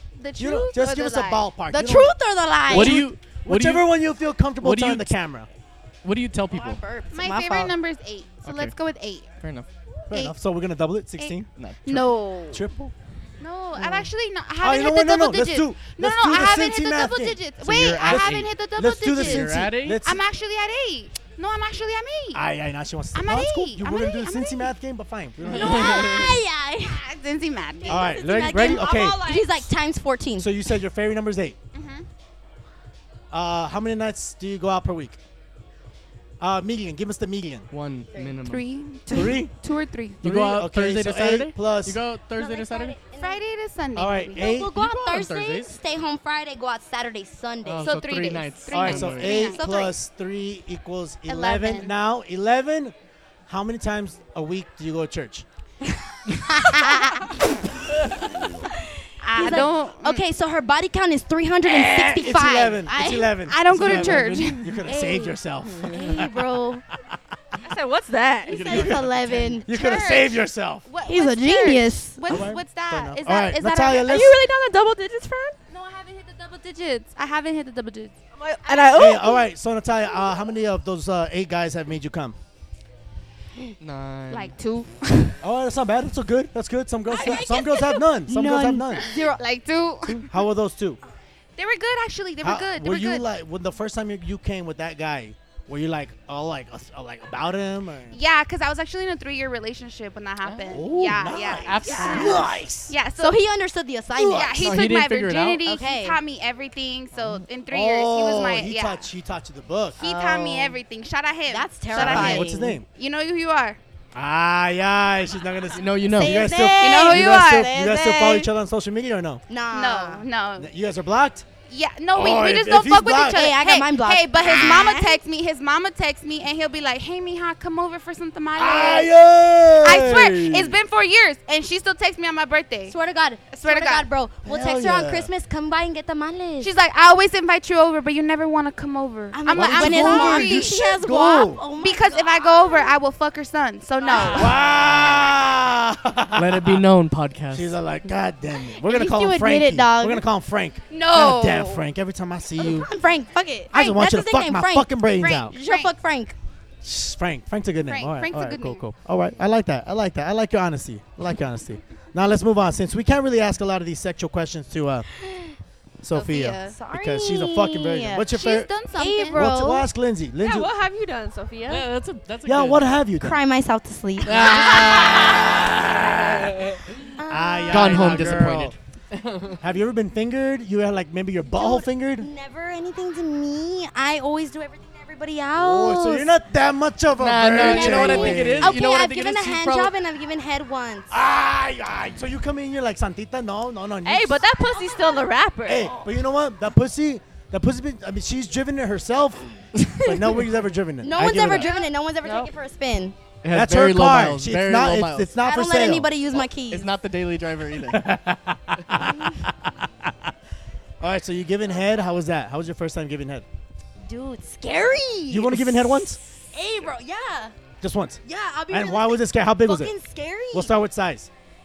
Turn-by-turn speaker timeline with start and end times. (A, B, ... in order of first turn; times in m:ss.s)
0:00.2-0:01.4 A
0:00.4-0:02.2 B
0:01.7-0:03.0 C
0:02.7-0:05.5 B
0:02.7-0:03.9 D
0:04.6-0:05.2 D
0:06.0-0:06.8 D
0:06.5-0:07.7 C
0:07.1-0:09.3 A
0:08.4-0:08.7 D
0:09.4-0:09.7 D
0:10.1-0:12.9 B
0:10.1-0:10.3 A
0:11.2-0:12.6 A
0:11.6-0:12.1 D
0:13.4-0:22.4 A
0:13.8-0:20.2 B
0:17.6-0:18.6 D
0:19.1-0:20.0 D
0:22.3-0:26.3 B
0:23.1-0:24.7 A
0:25.4-0:27.0 C
0:25.6-0:26.2 D
0:25.7-0:26.3 A
0:26.9-0:28.2 A
0:27.8-0:30.5 C
0:27.9-0:29.3 B
0:30.4-0:31.6 B
0:31.7-0:32.1 A
0:33.3-0:35.2 B
0:36.4-0:37.7 B
0:37.7-0:38.6 D
0:38.1-0:38.4 C
0:38.4-0:40.2 A
0:39.1-0:39.5 B
0:40.2-0:43.0 D
0:40.2-0:42.0 B
0:42.4-0:43.4 C
0:43.1-0:44.6 A
0:43.9-0:44.8 B
0:44.3-0:48.0 C
0:44.7-0:45.7 D
0:47.6-0:49.4 D
0:47.8-0:49.6 A
0:48.7-0:52.9 B
0:49.2-0:49.9 C
0:51.3-0:51.9 A
0:53.5-0:55.4 B
0:55.8-0:57.4 C
0:58.7-1:04.1 C
0:59.3-1:00.2 A
1:01.6-1:06.3 B
1:03.5-1:04.8 A
1:03.8-1:04.3 D
1:04.8-1:06.8 C
1:07.6-1:09.0 E
1:08.4-1:09.7 C
1:08.5-1:09.6 D
1:09.6-1:10.8 B
1:09.6-1:14.3 A
1:11.0-1:12.4 C
1:12.3-1:14.5 B
1:14.0-1:15.6 E
1:15.7-1:18.1 A
1:18.3-1:19.4 E
1:18.7-1:19.4 C
1:18.9-1:22.4 B
1:23.8-1:24.6 D
1:24.3-1:25.4 A
1:25.4-1:29.2 B
1:27.1-1:29.4 C
1:29.1-1:30.3 A
1:30.0-1:31.0 B
1:31.6-1:33.3 A
1:32.4-1:38.2 B
1:38.1-1:43.4 A
1:40.4-1:40.9 D
1:40.7-1:42.9 B
1:41.6-1:42.5 D
1:43.2-1:44.8 C
1:44.2-1:49.1 A
1:44.2-1:44.6 B
1:44.6-1:45.6 D
1:45.6-1:46.2 C
1:47.7-1:50.0 B
1:50.0-1:53.8 A
1:50.0-1:50.8 C
1:51.5-1:52.8 C
1:51.9-1:52.8 B
1:54.1-1:59.4 B
1:55.7-1:56.6 D
1:56.1-1:58.5 C
1:56.7-1:57.7 A
1:59.5-2:00.2 C
1:59.7-2:00.7 A
2:00.6-2:01.4 B
2:01.7-2:09.1 A
2:02.1-2:03.5 B
2:03.2-2:05.2 C
2:08.6-2:10.8 B
2:09.8-2:13.0 A
2:12.9-2:16.7 C
2:13.5-2:14.1 A
2:14.4-2:15.3 B
2:16.6-2:20.8 A
2:19.3-2:23.0 C
2:19.5-2:21.6 B
2:21.8-2:24.5 A
2:24.0-2:24.6 C
2:24.2-2:26.8 B
2:26.4-2:27.7 D
2:27.5-2:32.9 B
2:28.7-2:30.2 C
2:30.9-2:31.8 A
2:32.6-2:36.4 C
2:33.7-2:35.5 B
2:35.2-2:35.9 A
2:36.8-2:45.1 B
2:37.9-2:38.8 A
2:45.2-2:45.6 C
2:46.0-2:48.7 B
2:46.1-2:46.8 A
2:46.7-2:48.3 C
2:48.3-2:49.4 A
2:48.9-2:49.9 C
2:49.3-2:50.7 B
2:50.4-2:51.9 E
2:51.7-2:53.0 D
2:52.4-2:53.4 B
2:53.2-2:55.7 C
2:54.2-2:57.0 D
2:54.9-2:56.6 B
2:57.2-2:58.2 C
2:57.3-2:58.8 B
2:57.7-2:59.6 D
2:59.6-3:02.3 B
3:01.5-3:06.3 C
3:05.6-3:08.8 B
3:07.2-3:09.9 D
3:07.6-3:11.1 C
3:11.1-3:14.4 B
3:14.0-3:16.0 E
3:14.8-3:15.2 C
3:15.6-3:21.7 B
3:19.8-3:20.3 D
3:21.0-3:23.2 C
3:23.4-3:25.3 D
3:23.5-3:26.1 B
3:25.4-3:26.9 C
3:26.6-3:28.1 D
3:27.9-3:30.3 B
3:31.0-3:33.4 B
3:34.0-3:37.6 C
3:35.3-3:36.2 B
3:37.8-3:39.9 B
3:38.2-3:40.7 C
3:40.5-3:41.3 B